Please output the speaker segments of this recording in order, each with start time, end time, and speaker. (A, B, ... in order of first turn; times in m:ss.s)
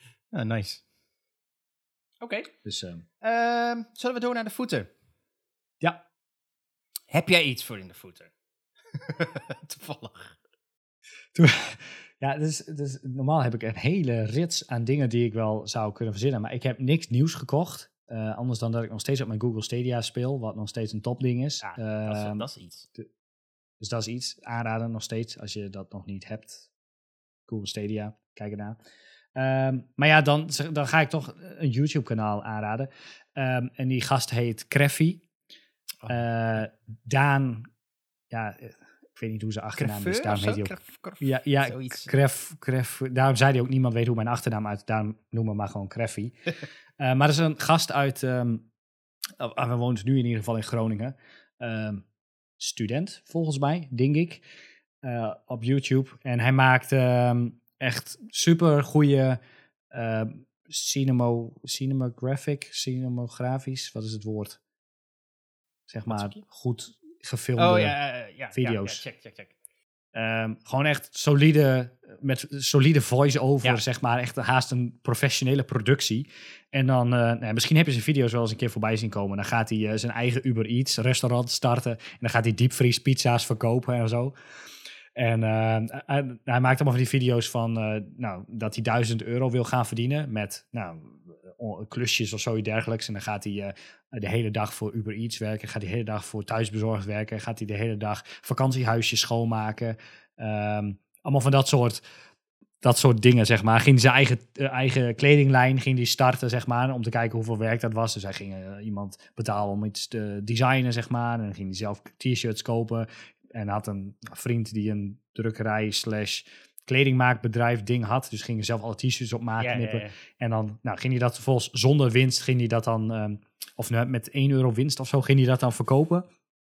0:00.3-0:00.8 A
0:02.2-0:02.5 A
0:02.6-0:03.0 B
0:03.2-0:04.9 A
0:07.1-0:08.3 A
0:08.9-0:10.3 A
0:11.3-0:22.5 B
0:21.6-0:22.9 A
0:23.8-0:26.7 B
0:27.5-0:28.8 B
0:29.4-0:35.2 B
0:36.1-0:37.7 B
0:38.3-0:46.4 B
0:39.8-0:42.1 A
0:47.0-0:48.7 B
0:49.4-0:52.0 B
0:52.6-0:54.4 B
0:55.0-0:59.4 B
0:59.9-1:04.6 B
1:05.9-1:08.0 B
1:06.1-1:06.4 A
1:07.6-1:09.5 A
1:08.5-1:09.0 B
1:10.1-1:24.4 B
1:25.1-1:42.0 B
1:42.8-2:06.3 B
1:59.6-2:00.1 A